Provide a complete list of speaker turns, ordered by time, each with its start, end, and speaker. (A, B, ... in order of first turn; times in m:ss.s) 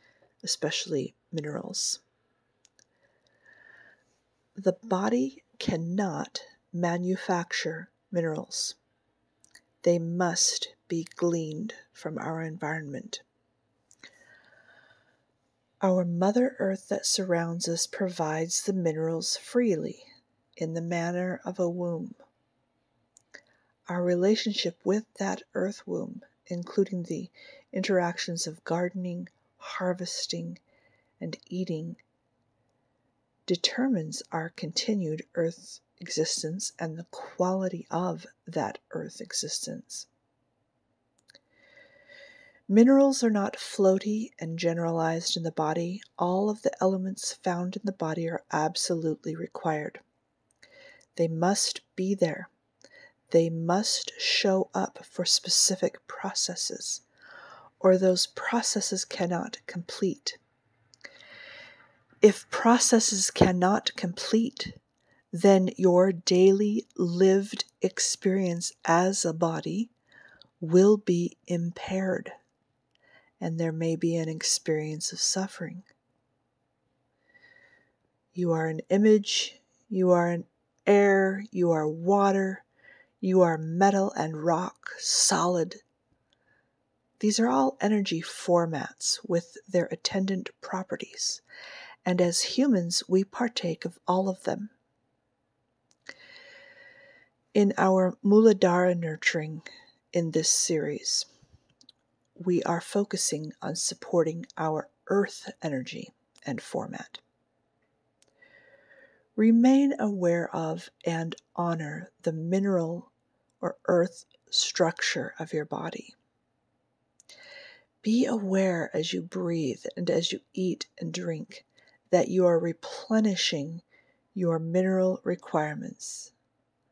0:00.4-0:02.0 A
0:04.6-0:08.8 A
0:09.8-0:13.2 A
0:15.8-0:22.2 A
0:23.9-0:30.6 A
0:31.2-0:32.0 A
0:33.5-0:40.1 A
0:42.7-0:50.0 A
0:51.2-0:52.5 A
0:53.3-0:57.0 A
0:57.8-1:00.4 A
1:02.2-1:04.8 A
1:05.3-1:09.9 A
1:10.6-1:12.3 A
1:13.4-1:15.9 A
1:18.3-1:22.6 A
1:23.2-1:25.8 A
1:27.2-1:31.4 A
1:32.0-1:34.7 A
1:37.5-1:41.3 A
1:42.4-1:47.2 A
1:49.4-1:56.2 A
1:58.0-2:03.8 A
2:04.4-2:06.3 A